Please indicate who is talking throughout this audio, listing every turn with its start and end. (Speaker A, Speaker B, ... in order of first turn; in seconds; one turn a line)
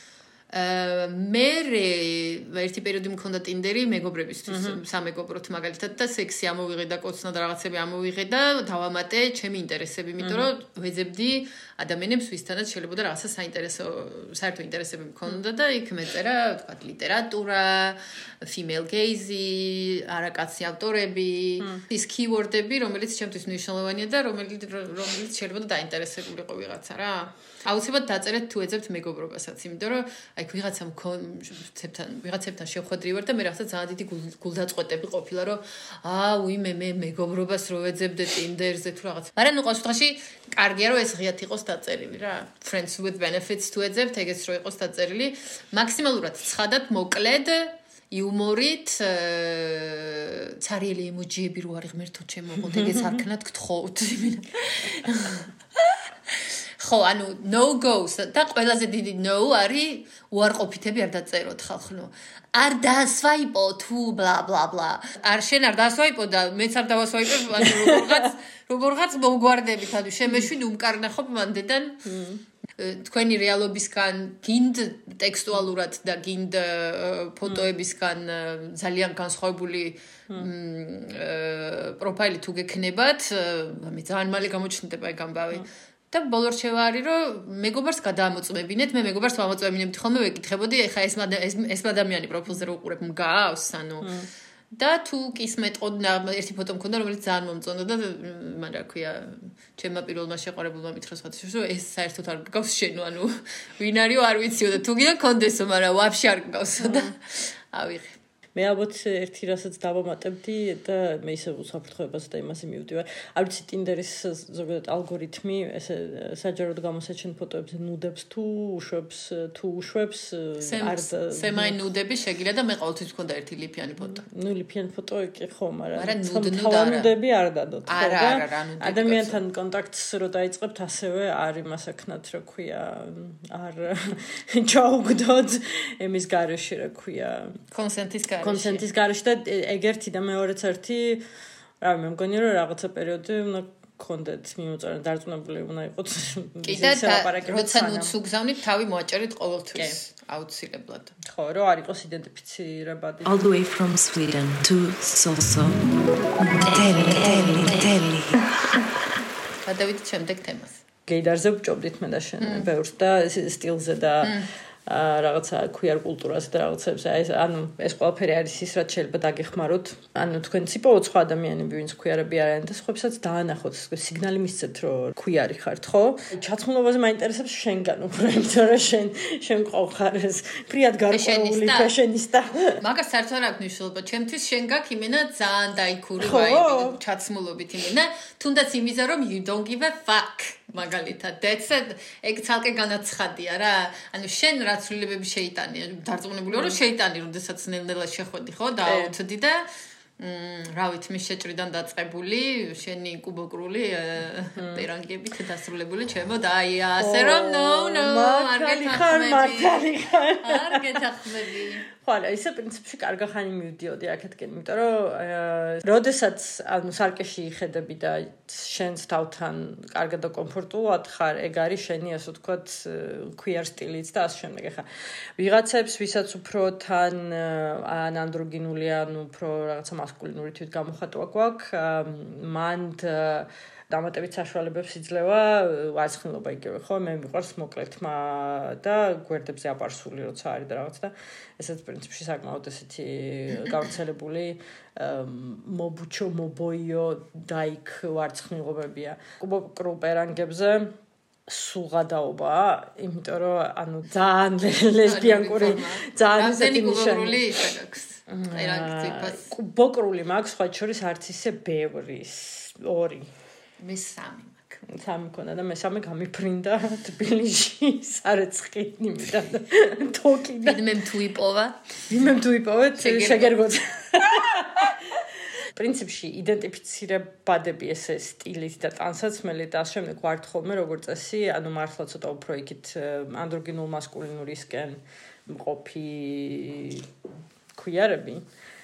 Speaker A: 0.5-72.1
Speaker B: 4.5-4.8
Speaker B: 10.2-10.5
Speaker B: 67.6-68.3
Speaker B: 72.0-72.4
Speaker A: 72.8-94.1
Speaker B: 94.0-94.3
Speaker A: 94.7-108.2
Speaker B: 106.8-107.1
Speaker B: 108.5-121.8
Speaker A: 120.6-124.2
Speaker B: 124.0-137.6
Speaker A: 126.0-127.1
Speaker A: 127.8-129.4
Speaker A: 137.7-138.8
Speaker B: 138.4-141.2
Speaker B: 141.8-148.1
Speaker A: 146.6-151.2
Speaker B: 151.2-153.3
Speaker C: 153.2-158.5
Speaker A: 159.6-160.8
Speaker B: 161.1-182.8
Speaker A: 162.4-162.7
Speaker A: 164.2-164.5
Speaker A: 181.1-181.9
Speaker A: 182.8-209.8
Speaker B: 186.2-187.0
Speaker B: 196.5-196.8
Speaker B: 198.8-199.1
Speaker B: 204.6-204.9
Speaker B: 207.0-250.9
Speaker A: 210.4-211.8
Speaker B: 251.5-257.7
Speaker A: 255.0-259.5
Speaker B: 258.3-263.3
Speaker A: 263.8-264.8
Speaker B: 264.8-270.9
Speaker A: 270.6-272.0
Speaker B: 272.1-275.2
Speaker A: 273.0-273.6
Speaker B: 275.7-287.1
Speaker B: 287.7-288.4